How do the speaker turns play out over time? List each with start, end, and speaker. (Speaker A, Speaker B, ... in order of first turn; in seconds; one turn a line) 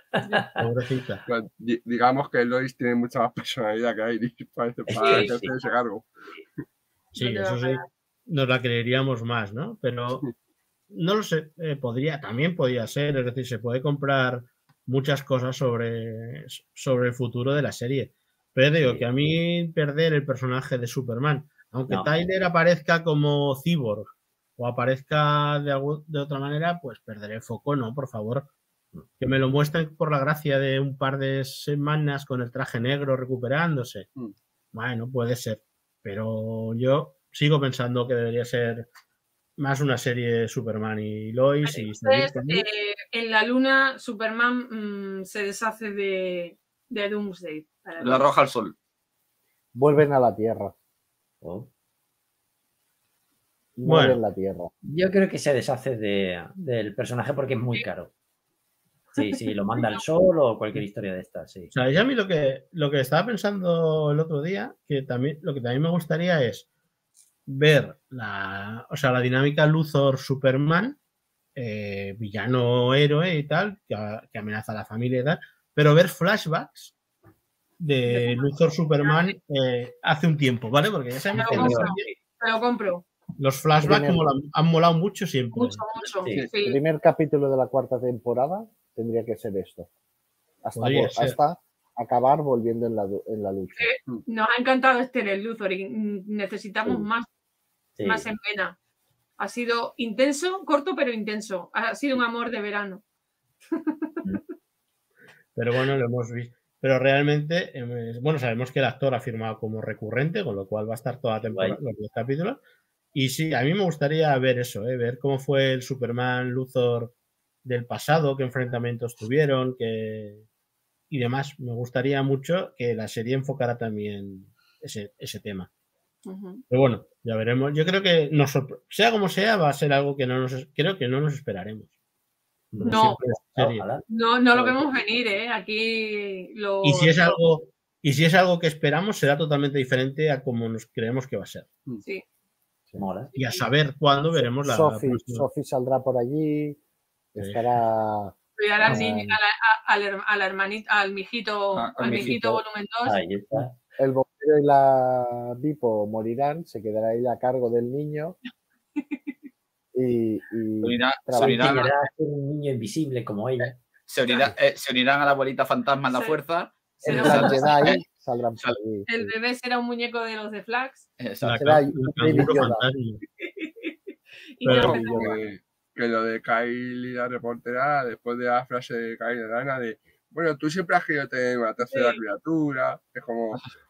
Speaker A: 0.2-0.5
Speaker B: 0.6-1.2
Speaker C: 1.3-6.2
Speaker A: 4.9-5.5
Speaker D: 5.0-5.4
Speaker B: 7.1-10.2
Speaker D: 7.2-7.9
Speaker B: 10.9-28.5
Speaker A: 18.8-19.1
Speaker B: 29.2-34.1
Speaker B: 34.7-38.9
Speaker B: 39.6-42.7
Speaker D: 41.6-48.3
Speaker E: 48.0-48.8
Speaker F: 49.8-50.7
Speaker A: 51.4-51.7
Speaker F: 53.8-54.7
Speaker B: 53.9-54.2
Speaker A: 54.8-58.1
Speaker A: 59.1-61.7
Speaker D: 59.2-60.0
Speaker B: 61.7-66.7
Speaker B: 67.5-71.0
Speaker B: 71.5-76.9
Speaker B: 77.8-82.1
Speaker D: 78.1-78.5
Speaker A: 81.3-82.2
Speaker D: 81.4-83.0
Speaker B: 83.4-85.8
Speaker F: 83.8-84.2
Speaker D: 85.5-86.8
Speaker F: 86.6-89.9
Speaker F: 90.6-93.9
Speaker B: 90.8-91.4
Speaker D: 93.8-97.3
Speaker A: 98.0-98.3
Speaker D: 98.0-98.8
Speaker D: 99.4-103.0
Speaker D: 103.7-104.2
Speaker B: 105.5-112.6
Speaker A: 111.5-111.8
Speaker B: 113.1-120.5
Speaker B: 121.1-125.7
Speaker D: 126.3-126.6
Speaker B: 126.7-131.9
Speaker A: 132.7-134.8
Speaker B: 132.8-133.9
Speaker D: 132.9-133.2
Speaker D: 134.1-137.4
Speaker B: 136.8-141.7
Speaker A: 143.0-143.3
Speaker D: 143.3-143.6
Speaker B: 143.4-145.5
Speaker F: 144.4-146.8
Speaker F: 147.3-149.3
Speaker B: 147.4-147.6
Speaker D: 148.6-153.2
Speaker E: 151.8-152.3
Speaker A: 152.0-153.8
Speaker F: 153.5-158.4
Speaker D: 159.0-159.3
Speaker F: 159.9-161.9
Speaker E: 160.8-161.9
Speaker A: 161.3-163.8
Speaker E: 163.6-168.0
Speaker D: 166.1-166.4
Speaker F: 167.0-169.3
Speaker D: 167.0-168.0
Speaker D: 169.1-171.1
Speaker E: 171.2-171.8
Speaker B: 171.4-173.2
Speaker F: 171.6-172.9
Speaker E: 172.3-172.6
Speaker D: 173.4-173.9
Speaker D: 174.6-175.4
Speaker B: 174.7-175.0
Speaker C: 174.7-183.7
Speaker F: 174.8-175.3
Speaker D: 181.9-182.2